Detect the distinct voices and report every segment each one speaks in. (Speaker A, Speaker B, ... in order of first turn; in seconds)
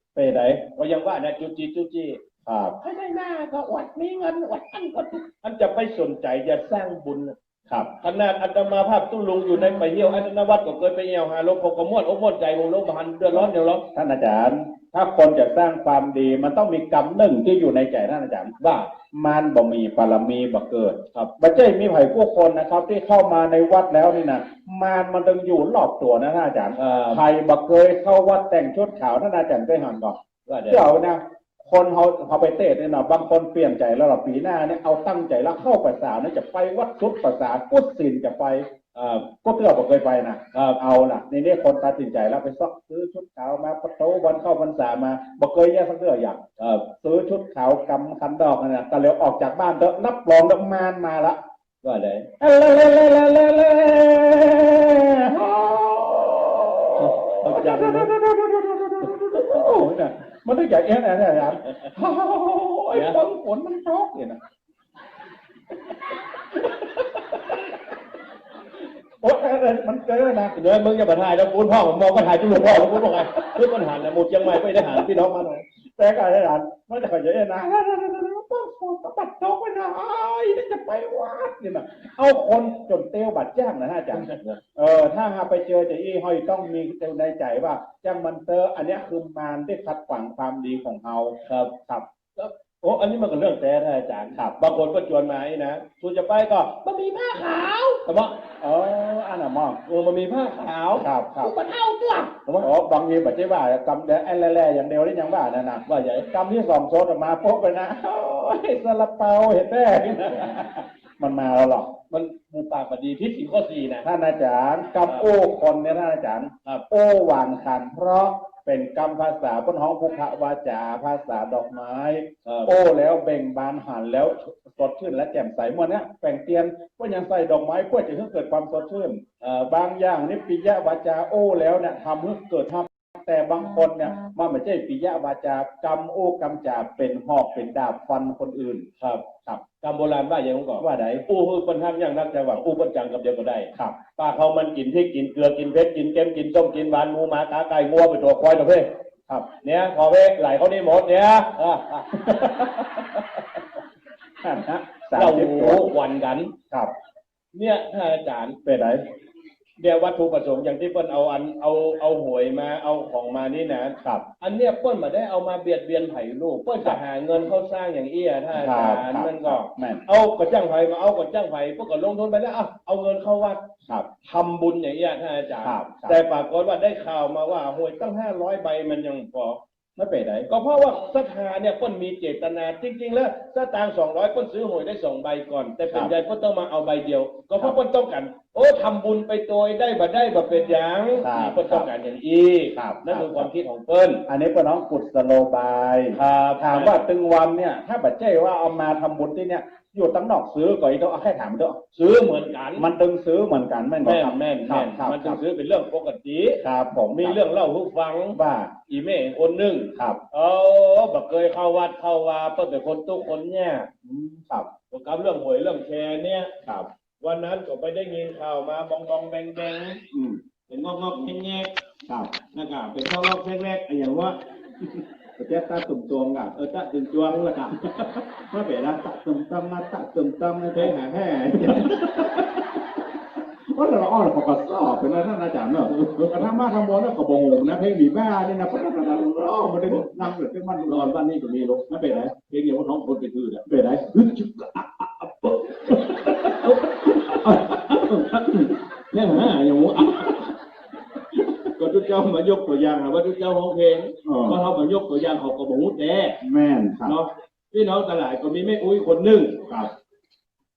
Speaker A: 0.1-0.6, 2.5-2.8, 13.3-18.5, 19.1-30.2, 30.7-38.7, 39.3-46.4, 47.0-51.4, 52.4-64.4, 66.5-67.7, 69.2-70.6, 72.8-73.5, 76.0-92.0, 98.6-99.8, 101.0-101.5, 102.6-111.9, 114.0-138.9, 140.8-141.2, 152.2-153.2, 154.4-155.9, 158.6-159.0, 164.0-164.2, 168.5-170.0, 175.6-176.2, 180.0-180.5, 191.2-191.9, 192.7-193.5, 194.3-201.8, 202.8-205.4, 206.6-207.4, 208.3-208.7, 209.9-210.2, 214.0-214.7, 220.1-220.4, 222.1-222.3, 225.4-226.6, 227.2-230.9, 231.6-232.4, 233.7-241.1, 241.9-242.3, 243.7-248.7, 254.2-254.6, 256.4-257.1
Speaker B: 0.7-2.2, 5.4-7.3, 8.0-13.8, 18.6-18.9, 26.7-27.2, 30.5-30.9, 38.9-39.3, 40.5-40.8, 46.6-46.9, 51.8-52.3, 57.0-58.1, 62.9-63.2, 70.5-75.6, 84.1-84.6, 91.4-91.7, 92.4-96.8, 98.0-98.3, 99.8-101.1, 105.8-106.3, 112.1-114.1, 122.4-122.7, 129.4-129.7, 139.0-139.2, 139.8-148.9, 149.6-152.1, 155.1-156.5, 157.5-158.6, 159.8-173.6, 174.2-179.6, 180.5-194.2, 196.1-197.0, 201.9-202.9, 204.0-206.6, 207.1-213.9, 214.9-216.5, 217.2-220.0, 220.7-221.7, 222.5-224.4, 226.5-227.7, 230.7-232.3, 235.9-236.4, 240.9-243.6, 245.9-250.5, 251.7-256.4, 257.0-259.6
Speaker C: 2.8-5.2, 96.8-98.0, 101.4-102.3